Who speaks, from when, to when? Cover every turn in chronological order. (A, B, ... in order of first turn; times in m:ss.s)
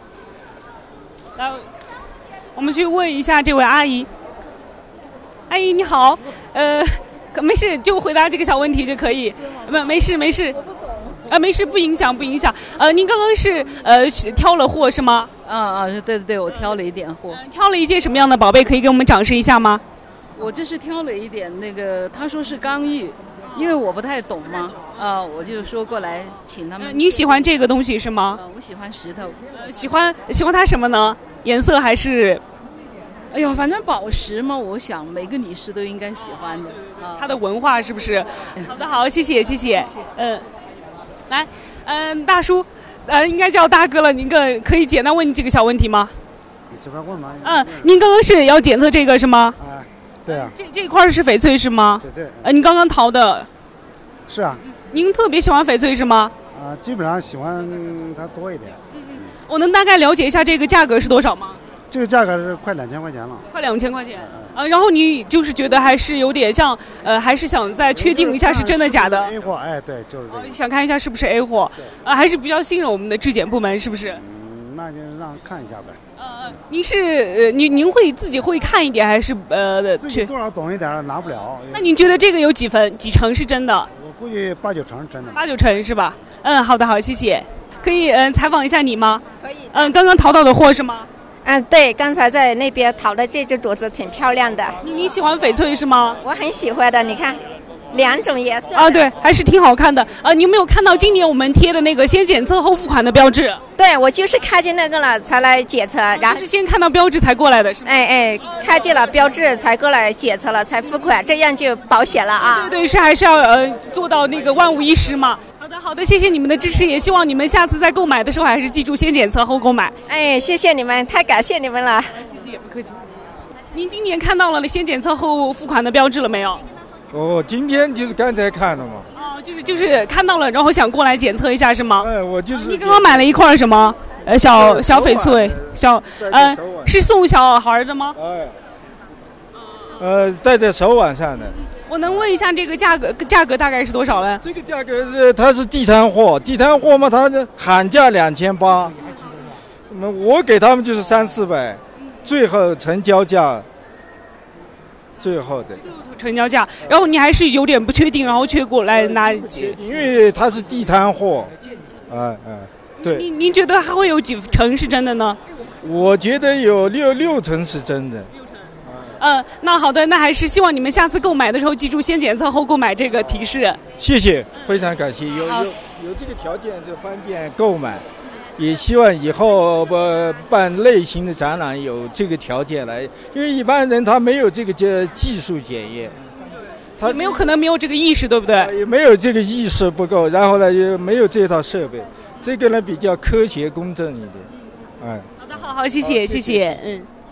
0:01.4-0:01.6 A
0:02.6-0:04.1 A
0:05.5-0:10.6 A
0:11.3-0:15.3 A
0:15.4-0:17.4 B
0:17.3-0:19.8 A
0:20.4-0:27.5 B
0:26.8-0:28.4 A
0:28.3-0:29.4 B
0:29.6-0:32.4 A
0:33.3-0:37.3 B
0:37.1-0:40.4 A
0:41.3-0:46.1 A
0:46.7-0:47.9 C
0:47.4-0:49.6 A
0:49.6-0:50.5 C
0:50.3-0:53.5 A
0:52.0-0:52.5 C
0:54.3-0:54.6 C
0:54.7-0:56.3 A
0:56.5-0:59.3 C
0:58.9-1:01.6 A
1:01.9-1:03.5 C
1:03.5-1:09.3 A
1:04.2-1:04.5 C
1:07.9-1:10.6 C
1:10.3-1:14.2 A
1:14.1-1:16.0 C
1:16.2-1:20.3 A
1:20.0-1:21.9 C
1:21.7-1:23.9 A
1:23.9-1:25.4 C
1:25.3-1:31.1 A
1:29.4-1:29.9 D
1:31.4-1:34.8 D
1:34.8-1:36.2 A
1:36.2-1:39.1 D
1:38.8-1:43.6 A
1:43.8-1:46.4 D
1:46.2-1:47.8 A
1:47.8-1:52.7 D
1:52.5-1:59.9 A
2:00.1-2:02.2 D
2:02.2-2:03.0 A
2:03.7-2:06.6 A
2:07.1-2:09.1 E
2:09.2-2:18.2 A
2:12.0-2:13.4 E
2:14.4-2:17.0 E
2:18.2-2:18.6 E
2:20.0-2:22.2 E
2:21.9-2:24.4 A
2:24.4-2:29.0 E
2:29.9-2:33.7 E
2:35.2-2:35.8 E
2:35.8-2:39.8 A
2:38.9-2:41.5 E
2:42.1-2:43.3 E
2:43.0-2:45.4 A
2:45.8-2:48.3 E
2:48.9-2:49.2 E
2:49.2-2:53.8 A
2:54.0-2:58.0 E
2:58.6-3:06.2 E
3:07.0-3:07.5 E
3:07.0-3:08.7 A
3:08.5-3:14.5 E
3:15.0-3:15.5 E
3:15.4-3:17.1 A
3:16.0-3:16.8 E